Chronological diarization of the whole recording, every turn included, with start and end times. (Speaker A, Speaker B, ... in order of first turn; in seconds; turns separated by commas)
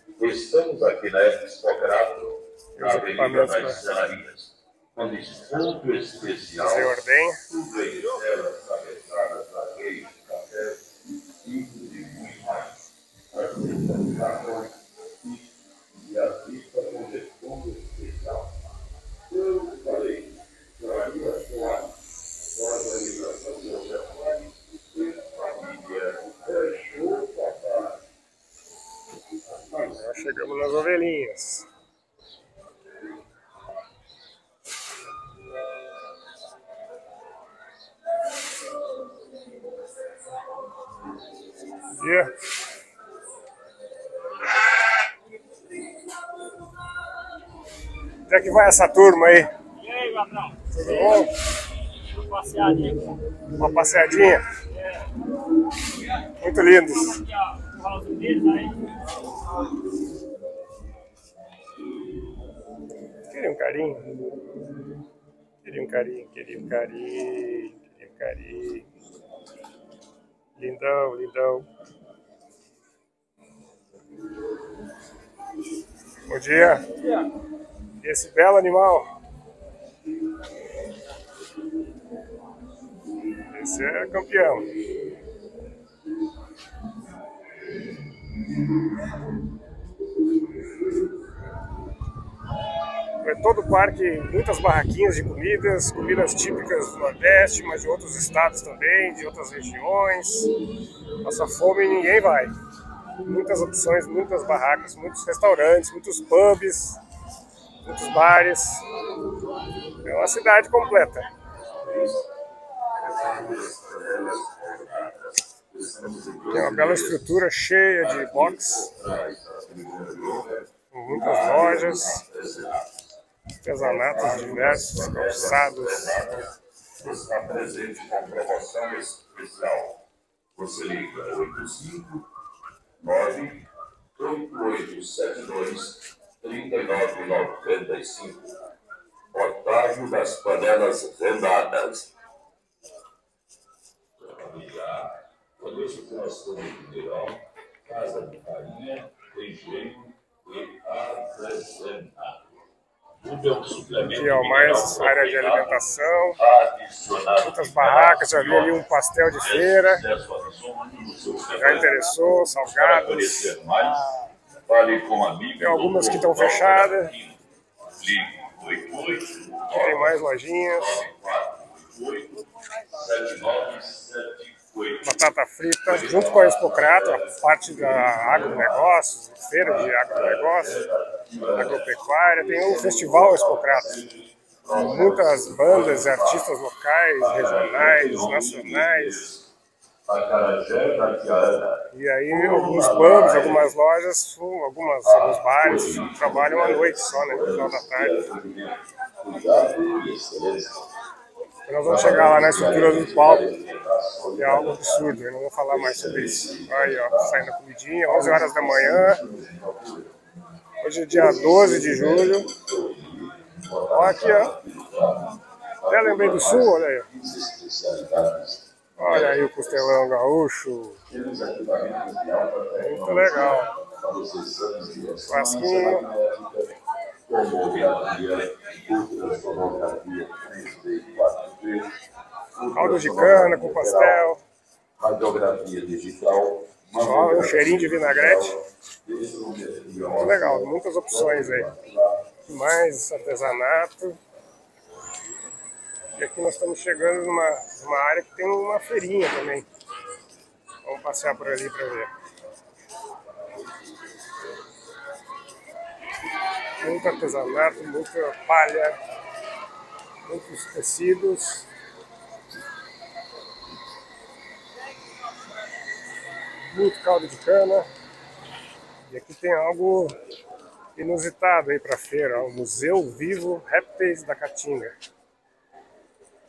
Speaker A: 0.1-12.8, Speaker B: 2.7-3.8, Speaker B: 6.6-7.4, Speaker A: 13.3-14.8, Speaker A: 15.9-18.5, Speaker A: 19.5-21.9, Speaker A: 22.5-24.4, Speaker A: 25.1-28.0, Speaker B: 29.7-31.7, Speaker B: 41.9-42.3, Speaker B: 48.2-49.5, Speaker C: 49.8-50.6, Speaker B: 50.6-51.4, Speaker C: 52.0-53.2, Speaker B: 53.5-54.5, Speaker C: 54.8-55.1, Speaker B: 56.3-57.3, Speaker C: 57.3-59.0, Speaker B: 63.3-64.0, Speaker B: 65.6-68.9, Speaker B: 70.5-71.7, Speaker B: 76.2-77.3, Speaker B: 78.0-79.1, Speaker B: 83.5-84.7, Speaker B: 93.2-100.5, Speaker B: 101.2-102.5, Speaker B: 103.2-107.0, Speaker B: 107.8-108.8, Speaker B: 110.0-111.3, Speaker A: 111.8-112.3, Speaker A: 113.0-117.3, Speaker B: 116.5-118.9, Speaker A: 118.0-123.0, Speaker B: 120.9-122.2, Speaker B: 123.6-126.2, Speaker A: 123.7-130.0, Speaker A: 130.5-132.2, Speaker A: 133.0-138.6, Speaker A: 139.3-142.1, Speaker A: 144.2-152.5, Speaker A: 153.2-155.8, Speaker B: 154.0-156.4, Speaker A: 156.4-158.8, Speaker B: 157.4-160.1, Speaker A: 159.4-162.0, Speaker B: 161.5-163.6, Speaker A: 162.5-175.2, Speaker B: 165.6-167.1, Speaker B: 169.7-171.1, Speaker B: 175.0-180.8, Speaker A: 175.8-179.0, Speaker A: 179.5-186.5, Speaker B: 181.4-184.0, Speaker B: 184.7-189.3, Speaker A: 187.2-189.4, Speaker A: 190.1-193.7, Speaker B: 191.9-198.2, Speaker A: 195.0-200.9, Speaker B: 201.7-203.5, Speaker A: 201.8-207.4, Speaker B: 204.3-209.2, Speaker A: 208.0-210.2, Speaker B: 210.8-212.5, Speaker A: 211.1-219.4, Speaker B: 213.9-214.5, Speaker B: 215.8-217.1, Speaker B: 219.0-221.0, Speaker A: 221.1-231.9, Speaker B: 222.7-223.8, Speaker B: 225.3-226.1, Speaker A: 232.5-234.2, Speaker B: 232.7-234.4, Speaker A: 235.0-242.2, Speaker B: 237.0-238.6, Speaker B: 240.1-241.7, Speaker B: 242.4-244.2, Speaker B: 246.2-249.7, Speaker B: 250.8-252.1, Speaker B: 256.8-259.0, Speaker B: 260.2-261.7, Speaker B: 266.7-267.9, Speaker B: 269.1-270.2, Speaker B: 270.9-274.9